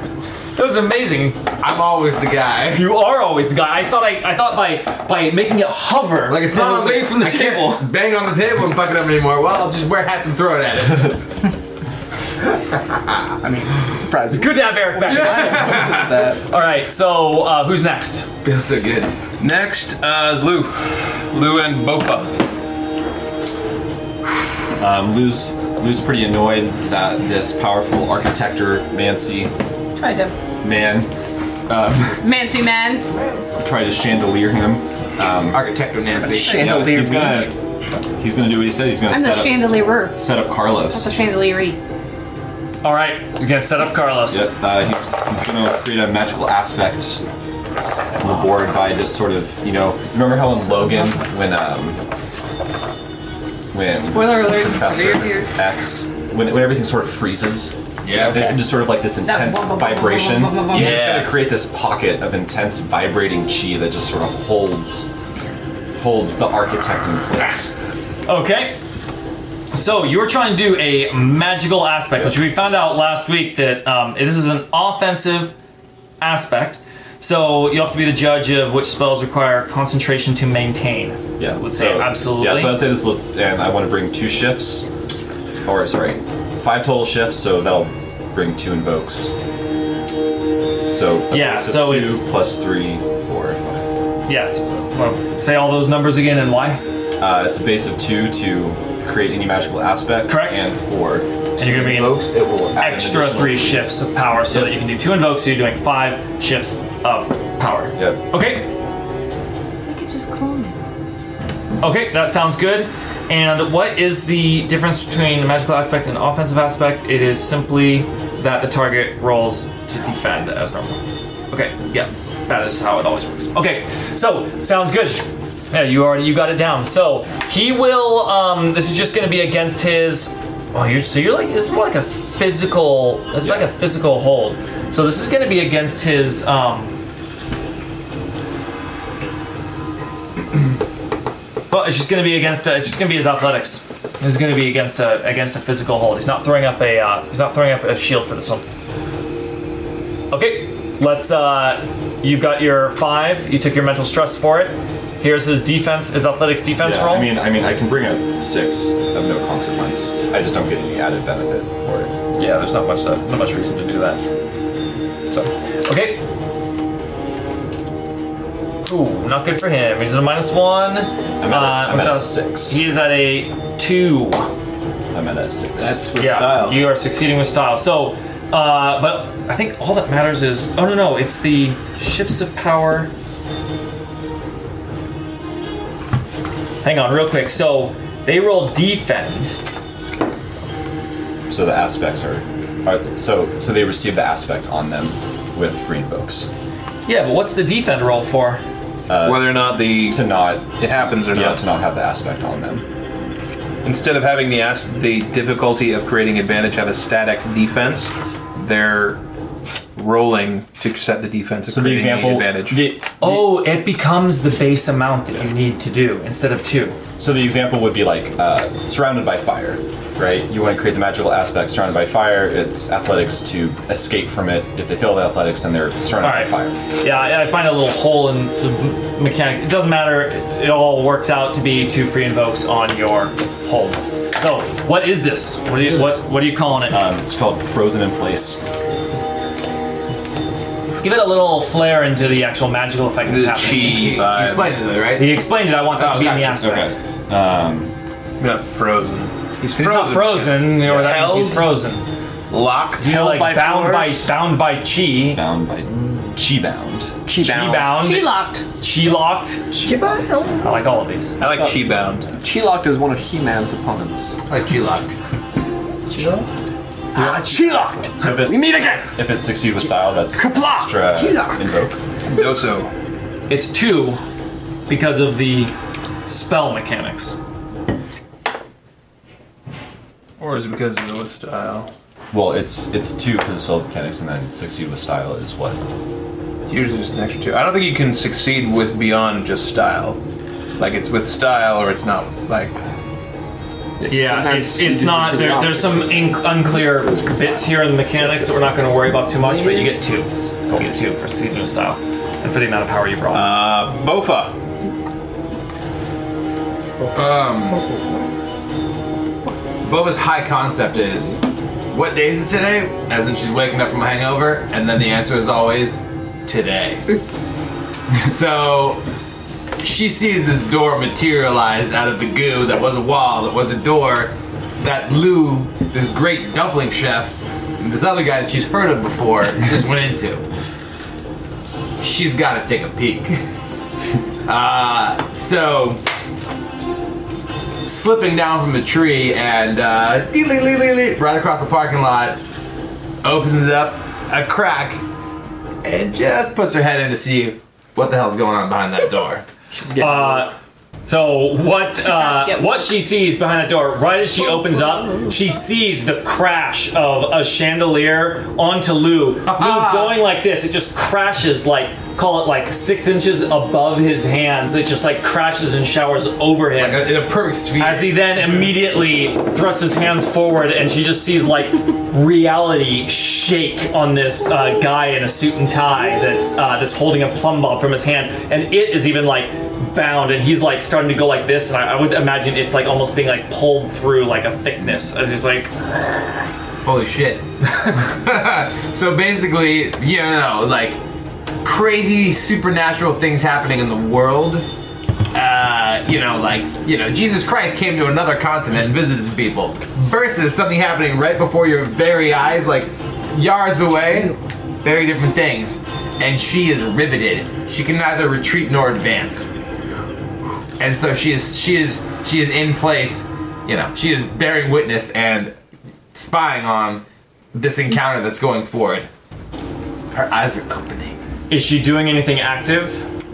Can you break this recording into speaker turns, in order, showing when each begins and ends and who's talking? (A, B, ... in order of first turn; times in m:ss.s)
0:00.6-0:01.4 A
0:01.6-0:02.9 B
0:02.7-0:07.9 A
0:06.3-0:11.3 B
0:13.4-0:16.4 C
0:14.3-0:18.3 A
0:15.1-0:16.2 B
0:18.4-0:19.1 B
0:19.4-0:22.3 D
0:24.8-0:29.5 E
0:30.0-0:30.4 F
0:30.6-0:31.1 E
0:31.7-0:32.2 E
0:32.2-0:33.1 F
0:33.1-0:33.6 B
0:33.6-0:35.7 E
0:35.5-0:36.8 B
0:36.2-0:37.5 C
0:36.3-0:36.8 F
0:36.5-0:37.5 E
0:38.2-0:41.1 E
0:39.1-0:40.3 F
0:40.9-0:41.8 F
0:42.8-0:44.5 A
0:44.3-0:47.2 E
0:47.8-0:52.0 E
0:53.7-1:05.1 E
0:54.0-0:55.6 F
0:58.0-0:58.5 B
0:59.2-1:01.1 F
1:00.7-1:01.3 D
1:06.0-1:07.7 E
1:08.3-1:08.8 A
1:09.7-1:15.5 A
1:16.2-1:22.9 A
1:21.4-1:24.9 E
1:25.6-1:29.3 E
1:30.9-1:33.9 E
1:31.3-1:32.3 A
1:34.3-1:36.8 A
1:37.2-1:43.9 E
1:40.2-1:40.7 A
1:41.6-1:48.7 A
1:48.0-1:48.2 E
1:49.9-1:50.8 F
1:51.8-2:01.0 A
2:01.5-2:16.9 A
2:21.7-2:28.6 A
2:30.3-2:37.3 A
2:36.8-2:42.1 E
2:42.3-2:44.2 A
2:45.3-2:46.2 A
2:48.8-2:54.5 A
2:51.4-2:52.8 E
2:55.1-2:56.1 E
2:55.8-2:56.8 D
2:56.2-3:03.1 A
3:06.8-3:09.6 A
3:11.5-3:16.5 E
3:17.1-3:18.6 A
3:19.1-3:22.8 E
3:19.2-3:20.2 D
3:20.8-3:21.6 D
3:23.8-3:29.2 D
3:30.0-3:32.8 D
3:31.7-3:33.4 E
3:33.2-3:37.0 A
3:37.2-3:46.8 E
3:46.2-3:57.0 A
3:56.9-3:58.6 E
4:01.0-4:04.2 A
4:03.3-4:04.8 D
4:03.8-4:05.4 B
4:05.2-4:07.0 A
4:06.0-4:06.5 B
4:06.6-4:07.9 E
4:08.4-4:11.7 D
4:09.8-4:12.0 A
4:12.5-4:13.1 D
4:13.0-4:15.4 A
4:13.0-4:14.3 C
4:15.3-4:17.2 E
4:17.3-4:18.0 C
4:17.4-4:20.0 A
4:18.0-4:18.6 F
4:19.8-4:20.7 C
4:20.6-4:21.4 A
4:21.4-4:22.3 D
4:21.4-4:21.8 C
4:22.4-4:24.4 C
4:24.5-4:25.2 B
4:27.2-4:29.1 C
4:27.2-4:27.6 A
4:28.2-4:32.0 E
4:29.8-4:31.6 C
4:32.3-4:32.9 D
4:33.5-4:34.2 A
4:34.9-4:35.7 A
4:36.2-4:37.4 A
4:40.4-4:41.9 D
4:42.3-4:45.8 E
4:46.7-4:50.2 D
4:50.8-4:52.8 D
4:54.0-4:58.5 C
4:54.1-5:03.5 A
5:03.3-5:04.6 D
5:07.1-5:07.9 B
5:09.8-5:11.4 B
5:11.9-5:17.1 B
5:18.2-5:19.0 B
5:19.8-5:30.4 B
5:32.0-5:33.4 B
5:34.5-5:36.0 B
5:37.8-5:42.4 B
5:43.2-5:45.0 B
5:45.8-5:49.4 B
5:49.7-5:50.5 C
5:50.0-6:07.2 A
5:52.0-5:52.9 F
5:59.4-6:00.2 B
6:06.8-6:08.7 B
6:07.8-6:25.7 A
6:26.8-6:31.0 B
6:31.6-6:34.7 B
6:35.3-6:49.5 B
6:50.8-6:55.6 B
6:56.1-6:59.1 B
7:00.1-7:01.2 B
7:01.5-7:03.0 A